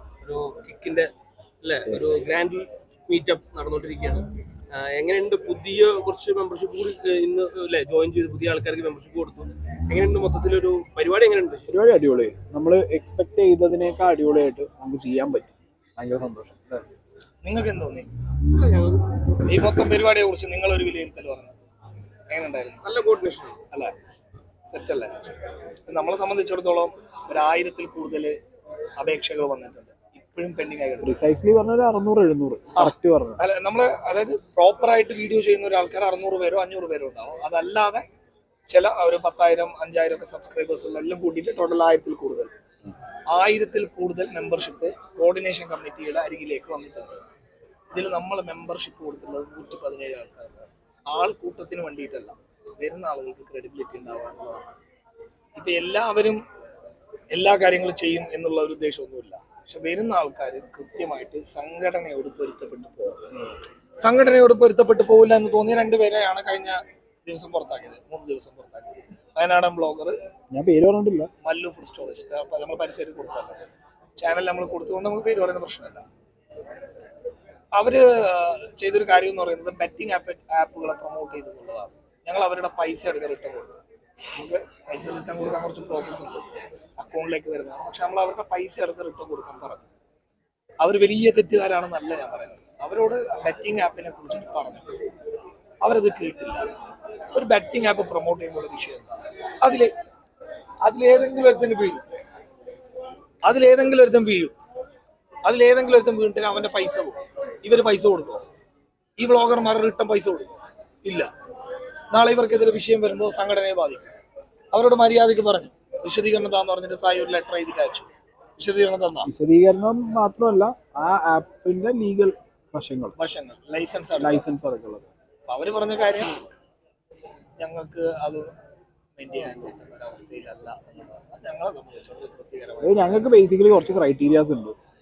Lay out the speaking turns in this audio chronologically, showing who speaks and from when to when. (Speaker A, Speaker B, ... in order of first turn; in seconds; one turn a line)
Speaker A: 0.2-1.1
Speaker A: 1.6-11.7
Speaker B: 1.9-2.2
Speaker B: 11.7-16.8
Speaker C: 17.4-18.1
Speaker A: 18.5-19.2
Speaker C: 19.5-21.6
Speaker C: 22.3-22.9
Speaker A: 22.8-23.6
Speaker C: 24.7-25.1
Speaker C: 25.9-28.4
Speaker C: 29.0-31.2
Speaker B: 31.0-33.4
Speaker C: 32.8-38.0
Speaker C: 38.7-42.5
Speaker C: 43.3-47.2
Speaker C: 47.9-54.7
Speaker C: 55.6-56.4
Speaker C: 57.3-63.2
Speaker C: 64.0-70.2
Speaker B: 70.5-71.3
Speaker C: 71.4-73.6
Speaker C: 74.2-76.0
Speaker C: 77.7-83.8
Speaker C: 84.3-86.4
Speaker C: 87.0-89.9
Speaker C: 90.8-94.8
Speaker C: 95.8-96.7
Speaker C: 97.3-99.9
Speaker C: 100.8-102.0
Speaker C: 103.4-104.5
Speaker C: 105.5-108.4
Speaker C: 109.2-111.3
Speaker C: 112.1-114.1
Speaker C: 114.7-119.3
Speaker B: 119.2-123.2
Speaker C: 123.2-124.5
Speaker B: 124.2-125.1
Speaker C: 125.5-126.5
Speaker C: 127.6-128.5
Speaker C: 129.2-133.1
Speaker B: 132.8-134.8